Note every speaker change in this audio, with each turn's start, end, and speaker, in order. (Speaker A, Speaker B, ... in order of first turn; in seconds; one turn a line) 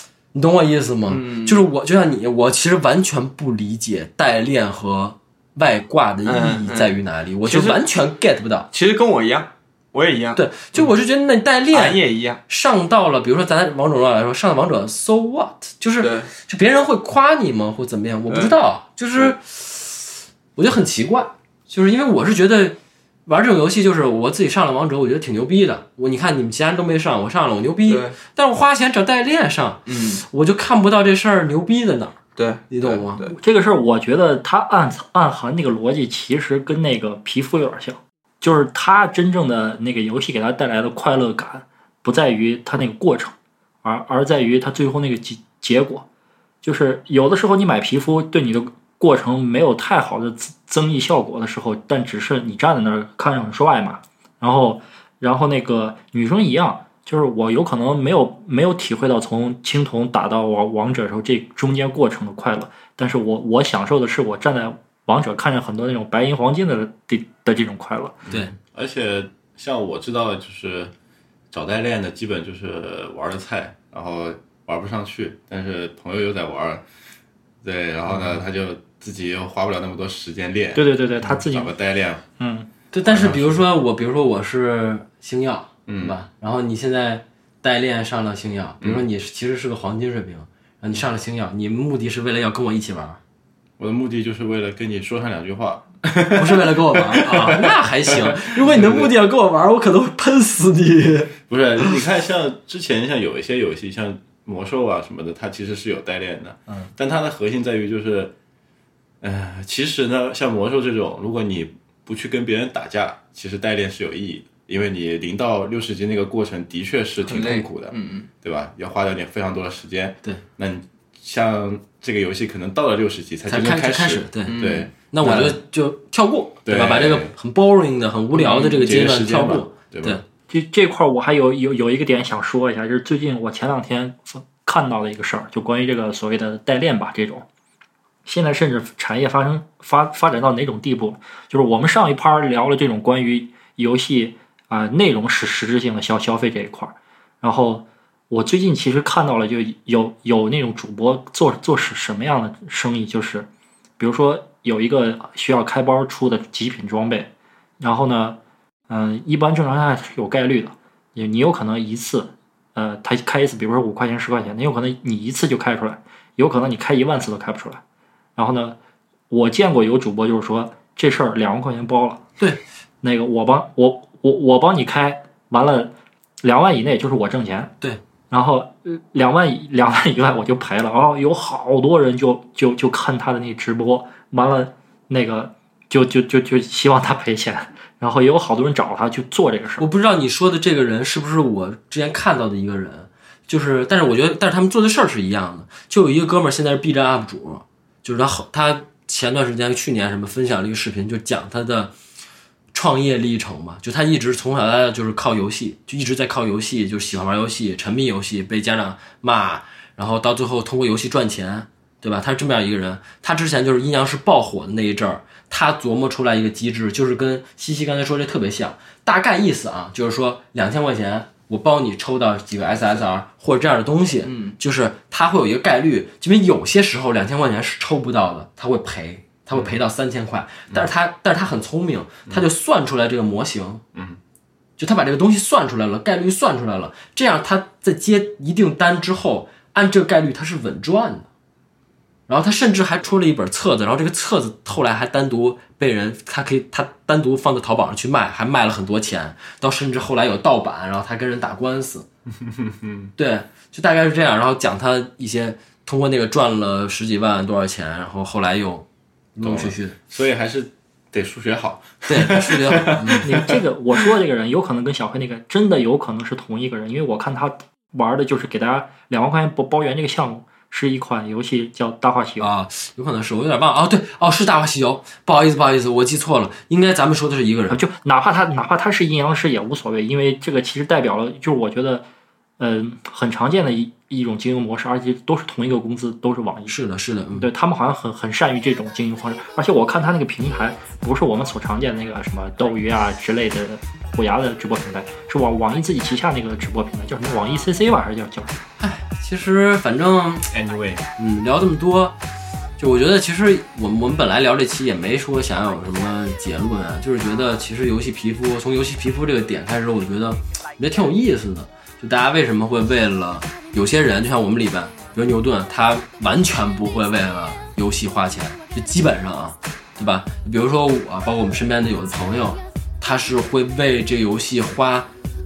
Speaker A: 0.3-8.7
Speaker B: 1.1-1.6
Speaker B: 6.2-7.8
Speaker B: 8.7-10.9
Speaker A: 10.3-32.2
Speaker B: 11.7-12.4
Speaker B: 16.0-16.3
Speaker B: 18.3-18.6
Speaker B: 27.9-28.2
Speaker B: 29.9-30.2
Speaker B: 32.4-33.4
Speaker A: 32.7-33.3
Speaker C: 33.4-46.0
Speaker C: 46.6-68.2
Speaker D: 68.3-70.9
Speaker D: 71.5-76.8
Speaker D: 77.6-82.2
Speaker C: 80.8-81.7
Speaker C: 82.4-82.7
Speaker A: 82.9-93.2
Speaker D: 83.0-83.7
Speaker D: 85.9-86.2
Speaker D: 93.8-99.1
Speaker A: 96.4-102.0
Speaker D: 101.5-108.3
Speaker D: 109.2-125.6
Speaker B: 117.2-118.3
Speaker A: 123.5-130.2
Speaker B: 124.5-124.9
Speaker D: 126.7-127.3
Speaker D: 128.3-130.2
Speaker C: 130.5-137.4
Speaker C: 138.2-153.5
Speaker C: 154.0-158.4
Speaker C: 158.9-167.8
Speaker C: 168.4-168.8
Speaker C: 169.3-172.2
Speaker A: 172.4-172.6
Speaker C: 173.0-177.7
Speaker C: 178.3-189.9
Speaker A: 189.8-201.9
Speaker A: 202.7-233.8
Speaker B: 224.2-224.6
Speaker D: 233.9-234.2
Speaker A: 234.8-241.3
Speaker A: 242.3-252.1
Speaker D: 252.4-253.1
Speaker A: 253.2-259.9
Speaker D: 259.4-263.6
Speaker A: 262.1-263.4
Speaker C: 263.2-272.5
Speaker A: 272.4-277.8
Speaker C: 277.7-282.0
Speaker C: 282.6-286.8
Speaker A: 286.7-287.5
Speaker C: 287.4-298.6
Speaker A: 298.8-300.5
Speaker D: 300.5-301.1
Speaker A: 301.2-302.2
Speaker A: 302.8-325.1